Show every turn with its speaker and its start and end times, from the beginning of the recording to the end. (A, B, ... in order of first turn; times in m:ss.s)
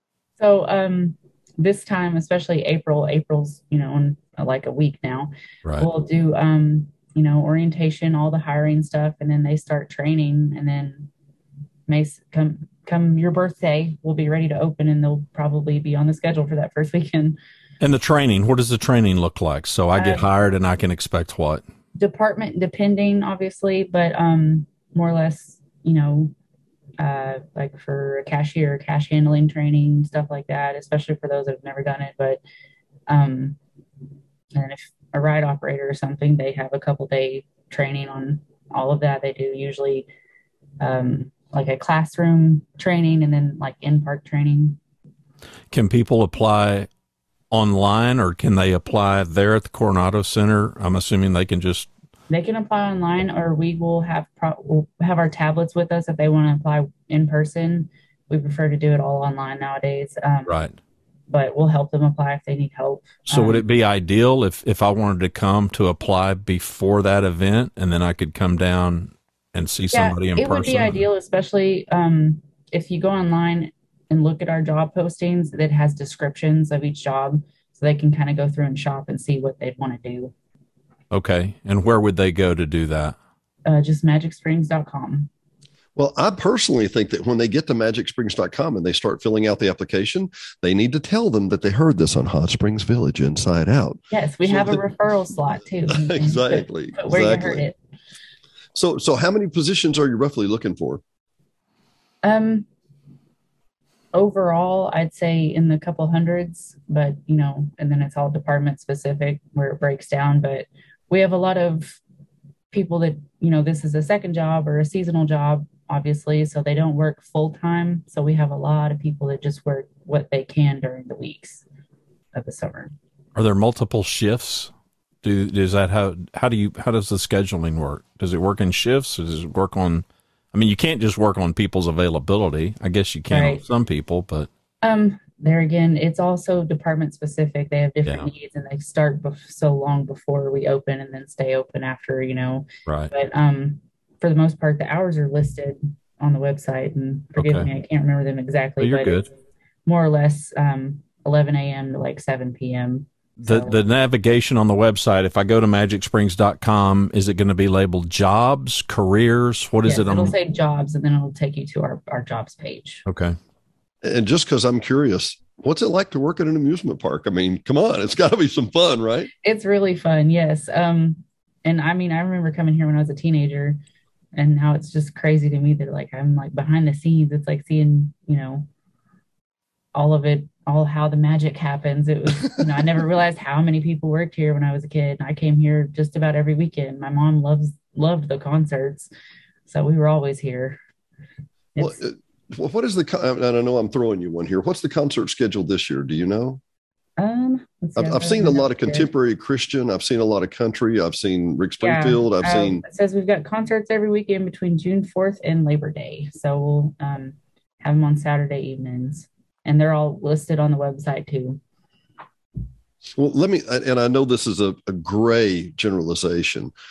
0:00.4-0:11.1 A
0:11.9-0:17.4 A
0:17.8-0:21.6 B
0:19.9-0:20.3 A
0:22.0-0:26.3 A
0:27.0-0:32.4 A
0:33.1-0:33.6 A
0:34.5-0:40.1 A
0:40.8-0:44.8 A
0:45.7-0:46.9 B
0:47.5-0:51.9 B
0:52.3-1:00.5 A
1:00.5-1:00.7 B
1:01.3-1:03.6 A
1:03.2-1:11.0 B
1:09.9-1:20.3 A
1:21.1-1:23.2 B
1:23.6-1:25.3 A
1:26.0-1:34.8 C
1:34.1-1:37.8 A
1:35.9-1:37.7 C
1:38.7-1:41.0 C
1:42.2-1:42.6 A
1:44.1-1:52.0 A
1:52.7-2:01.6 A
2:02.3-2:02.9 A
2:03.3-2:04.7 B
2:05.2-2:14.5 B
2:13.3-2:13.6 A
2:14.8-2:29.2 A
2:18.0-2:18.3 B
2:22.8-2:23.1 B
2:27.4-2:27.7 B
2:28.8-2:29.3 B
2:29.8-2:33.8 A
2:33.4-2:40.3 B
2:39.8-2:43.0 A
2:43.0-2:43.3 B
2:44.0-2:49.3 C
2:49.4-2:53.8 A
2:54.3-2:58.7 A
2:59.9-3:09.1 A
3:09.6-3:10.8 A
3:11.7-3:12.0 A
3:11.8-3:16.6 C
3:17.2-3:19.1 A
3:18.0-3:22.8 C
3:21.8-3:31.6 A
3:33.2-3:36.7 C